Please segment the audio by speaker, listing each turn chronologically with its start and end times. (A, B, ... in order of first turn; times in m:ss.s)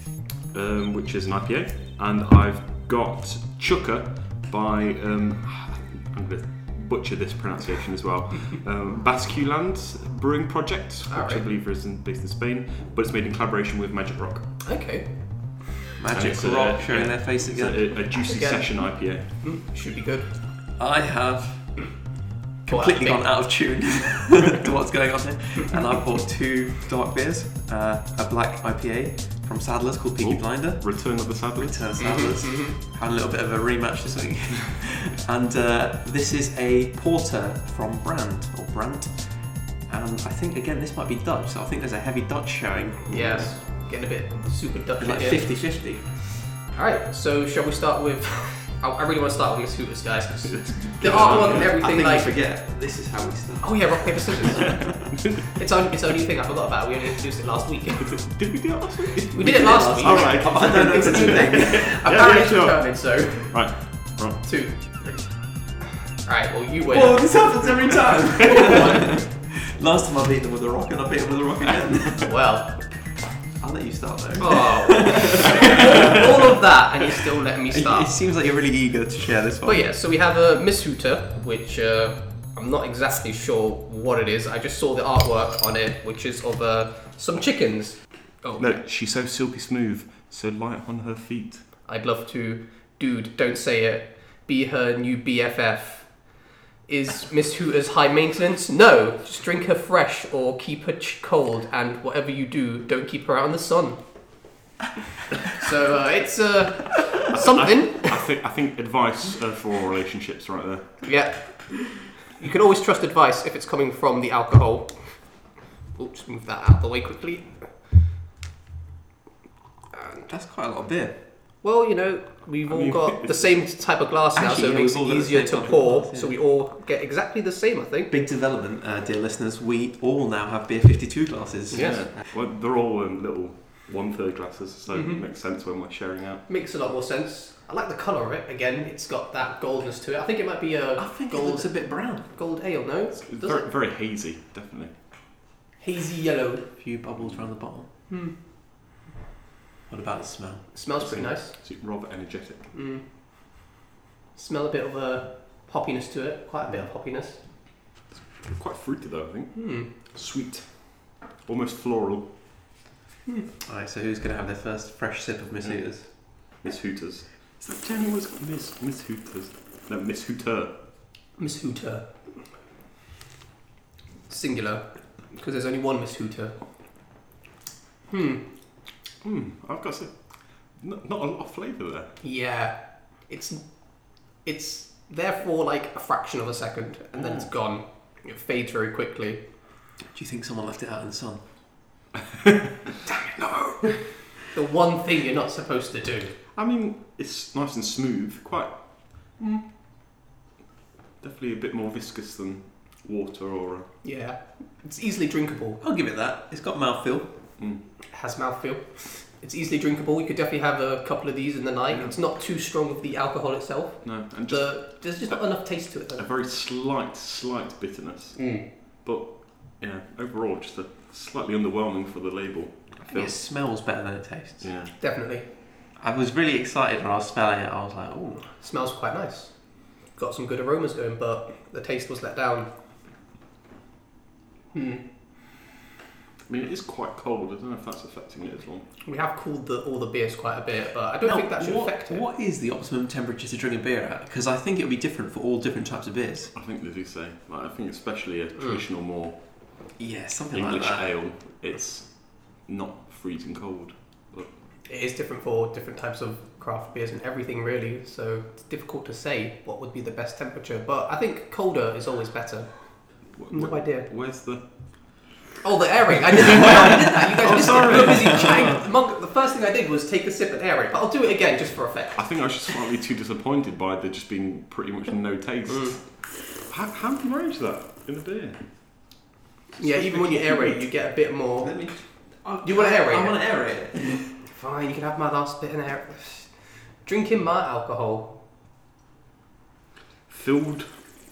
0:00.5-0:14.6 A
0:11.1-0:11.5 B
0:14.6-0:15.2 B
0:16.0-0:17.9 C
0:16.1-0:19.3 A
0:18.1-0:20.3 B
0:20.8-0:21.9 C
0:22.6-0:30.9 C
0:22.7-0:23.2 B
0:30.2-0:31.9 A
0:31.6-0:43.5 C
0:32.0-0:32.8 B
0:43.1-0:45.6 B
0:45.0-0:46.2 C
0:46.6-0:52.3 B
0:50.5-0:51.7 A
0:51.0-0:54.9 C
0:53.6-0:54.9 B
0:54.6-0:55.5 A
0:55.5-0:58.2 B
0:58.0-1:04.4 A
0:59.3-1:03.6 B
0:59.4-1:02.1 C
1:04.4-1:05.3 B
1:06.1-1:07.4 B
1:06.9-1:12.3 C
1:08.4-1:09.1 B
1:12.2-1:12.8 B
1:13.6-1:16.5 C
1:14.4-1:18.1 B
1:17.7-1:19.9 C
1:19.6-1:28.8 B
1:28.6-1:31.6 A
1:31.8-1:44.0 B
1:45.4-1:48.2 B
1:47.3-1:51.0 A
1:51.0-1:57.7 B
2:00.3-2:01.2 C
2:01.6-2:08.2 B
2:02.7-2:03.7 A
2:04.4-2:06.4 C
2:08.1-2:12.1 C
2:11.7-2:12.0 B
2:11.7-2:16.4 A
2:14.9-2:15.2 B
2:16.5-2:23.6 B
2:21.0-2:22.3 C
2:23.2-2:24.9 A
2:25.8-2:26.7 B
2:26.8-2:27.9 C
2:28.1-2:28.4 B
2:29.9-2:30.7 C
2:30.7-2:31.6 B
2:31.0-2:32.7 A
2:32.7-2:33.0 B
2:34.4-2:37.4 B
2:38.2-2:40.9 A
2:39.5-2:39.9 B
2:41.4-2:42.3 A
2:43.6-2:46.1 C
2:46.4-2:50.7 A
2:51.4-2:52.1 B
2:54.3-2:56.6 B
2:58.1-2:58.4 B
2:59.2-3:02.1 A
3:02.2-3:09.4 B
3:07.2-3:07.5 A
3:10.1-3:11.4 C
3:13.1-3:16.4 B
3:16.6-3:19.5 A
3:21.2-3:23.9 A
3:24.0-3:25.8 B
3:25.8-3:27.3 C
3:28.1-3:36.2 B
3:31.9-3:32.2 A
3:34.0-3:35.4 A
3:36.2-3:43.3 A
3:38.4-3:38.7 B
3:43.0-3:44.7 C
3:44.6-3:44.9 A
3:45.0-3:45.4 B
3:46.0-3:48.5 C
3:48.5-3:49.5 B
3:50.1-3:52.7 B
3:54.7-3:55.0 B
3:56.5-3:58.9 A
3:59.0-4:02.2 B
4:01.2-4:06.5 C
4:06.6-4:09.4 A
4:10.0-4:11.1 C
4:10.5-4:14.5 A
4:14.9-4:22.9 B
4:23.3-4:24.6 A
4:23.5-4:24.1 B
4:25.6-4:32.3 B
4:26.4-4:28.8 A
4:27.9-4:28.6 C
4:32.2-4:38.6 A
4:35.7-4:36.0 B
4:39.8-4:40.8 A
4:39.8-4:41.8 B
4:41.6-4:44.4 C
4:42.6-4:43.4 B
4:44.2-4:48.4 B
4:50.3-4:50.9 A